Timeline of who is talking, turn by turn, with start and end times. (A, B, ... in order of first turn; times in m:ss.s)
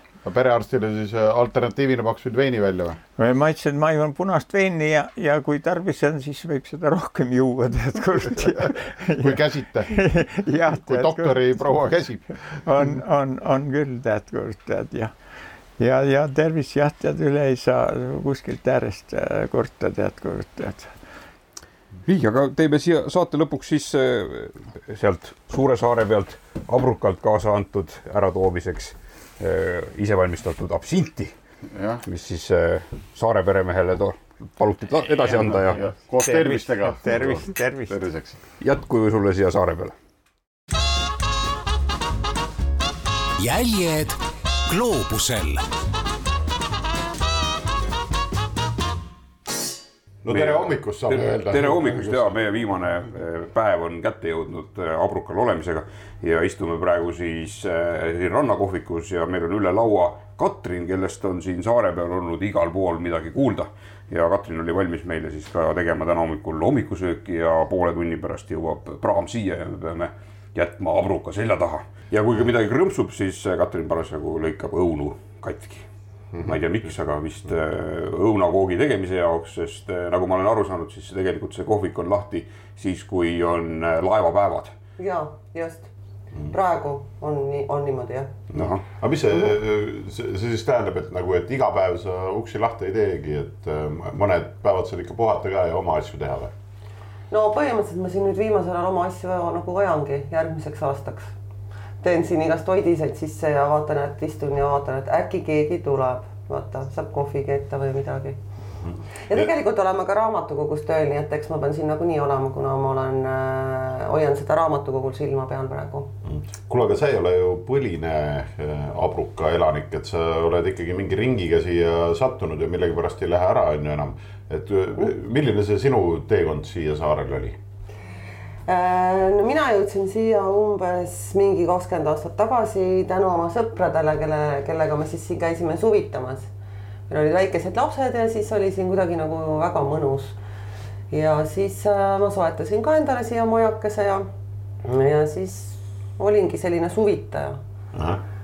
0:00.2-0:03.0 A
0:03.2-0:11.8 B
0:09.2-0:10.0 A
0:10.7-0:12.3 A
0:12.3-0:15.1 B
0:15.8-0:20.9 B
0:22.0-0:31.3 C
0:31.7-0:32.0 A
0:32.0-0:35.8 C
0:35.2-0:38.4 A
0:35.8-0:38.0 B
0:38.6-0:39.9 C
0:43.4-0:45.6 D
0:50.2-0:52.3 A
0:50.3-1:15.9 C
1:16.4-1:24.8 C
1:25.0-1:25.9 E
1:26.4-1:28.3 E
1:28.5-1:28.8 C
1:29.0-1:36.5 A
1:37.3-1:41.3 E
1:42.0-1:48.4 E
1:48.8-1:49.5 A
1:49.2-1:56.1 E
1:56.2-2:07.6 A
2:08.7-2:16.5 E
2:17.1-2:20.4 E
2:21.1-2:24.3 E
2:24.8-2:27.6 E
2:27.9-2:28.2 A